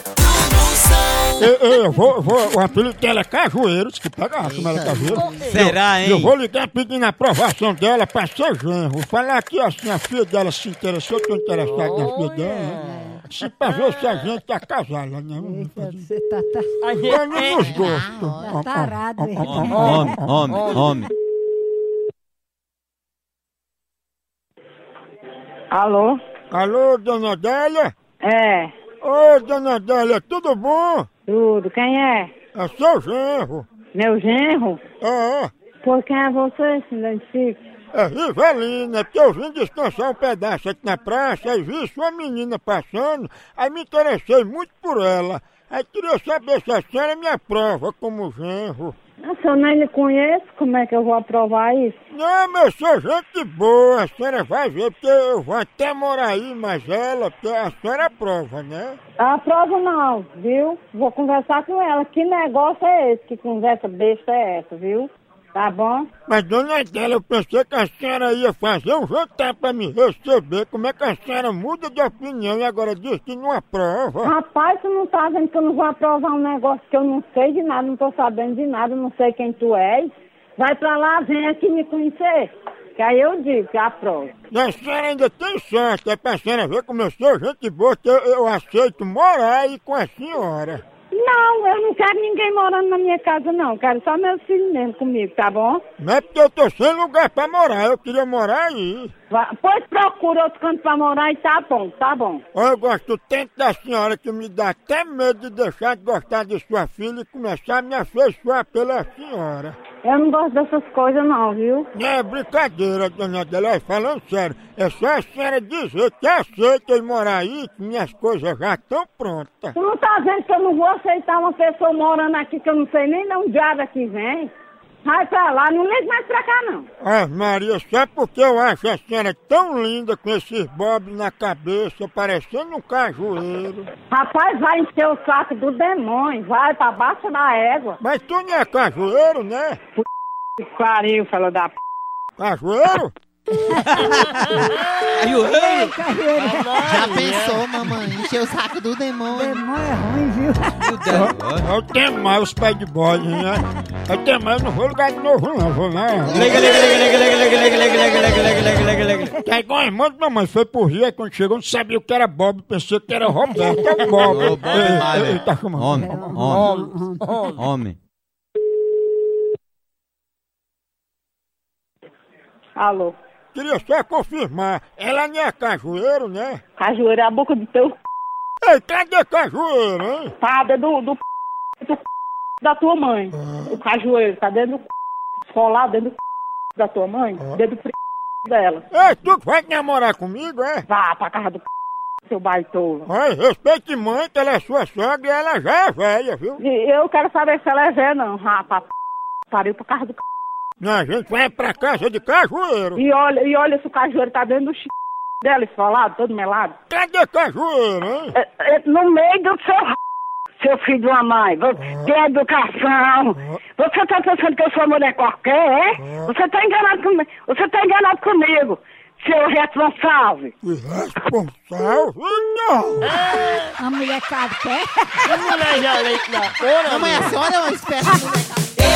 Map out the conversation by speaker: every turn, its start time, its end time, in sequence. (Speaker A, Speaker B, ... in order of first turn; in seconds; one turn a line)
Speaker A: 1.4-16.1
Speaker B: 4.4-5.4
Speaker C: 5.4-6.3
Speaker D: 11.8-13.0
Speaker E: 12.8-13.2
Speaker E: 15.4-16.7
Speaker D: 16.8-17.7
Speaker A: 17.0-20.4
Speaker B: 17.5-18.6
Speaker E: 18.4-21.0
Speaker C: 19.4-21.1
Speaker D: 20.5-20.8
Speaker F: 25.7-26.2
Speaker A: 26.5-27.9
Speaker F: 28.2-28.7
Speaker A: 29.0-31.1
Speaker F: 31.3-32.3
Speaker A: 32.5-33.7
Speaker F: 33.9-34.8
Speaker A: 35.0-35.5
Speaker F: 35.8-37.6
Speaker A: 37.9-49.0
Speaker F: 49.3-52.0
Speaker A: 52.1-59.0
Speaker F: 59.2-66.1
Speaker A: 66.3-74.3
Speaker F: 74.2-84.3
Speaker A: 84.5-90.8
Speaker F: 91.1-95.8
Speaker A: 96.0-99.1
Speaker F: 99.3-102.4
Speaker A: 102.5-109.8
Speaker F: 110.0-111.9
Speaker A: 111.9-119.8
Speaker F: 119.8-124.5
Speaker F: 125.0-126.9
Speaker A: 127.0-133.9
Speaker F: 134.1-138.0
Speaker A: 138.0-139.8
Speaker F: 140.6-141.7
Speaker A: 142.4-143.1
Speaker E: 143.7-144.7
Speaker C: 145.2-145.9
Speaker E: 145.2-146.9
Speaker D: 145.7-147.7
Speaker B: 146.7-149.7
Speaker E: 149.3-151.4
Speaker C: 150.8-151.7
Speaker A: 151.6-156.9
Speaker B: 156.2-156.8
Speaker C: 156.3-159.3
Speaker A: 159.4-166.5
Speaker E: 163.5-164.2
Speaker C: 164.2-166.7
Speaker E: 165.9-167.4
Speaker D: 166.5-167.6
Speaker C: 167.5-168.0
Speaker F: 172.8-173.2
Speaker A: 173.5-176.6
Speaker F: 176.8-177.9
Speaker A: 178.6-180.3
Speaker F: 180.4-181.2
Speaker F: 182.6-184.9
Speaker A: 183.4-183.8
Speaker F: 185.5-186.2
Speaker F: 186.8-187.9
Speaker F: 188.5-188.8
Speaker A: 188.9-190.8
Speaker F: 190.9-191.6
Speaker F: 192.3-193.1
Speaker A: 193.1-196.6
Speaker F: 196.6-198.9
Speaker F: 199.5-200.2
Speaker A: 200.8-203.0
Speaker F: 203.0-204.9
Speaker F: 205.4-206.8
Speaker A: 206.9-208.4
Speaker F: 208.4-210.0
Speaker F: 210.6-220.5
Speaker A: 211.8-212.1
Speaker A: 216.0-216.3
Speaker A: 220.6-223.2
Speaker D: 223.2-223.6
Speaker E: 223.6-225.6
Speaker D: 225.3-227.5
Speaker B: 226.7-228.7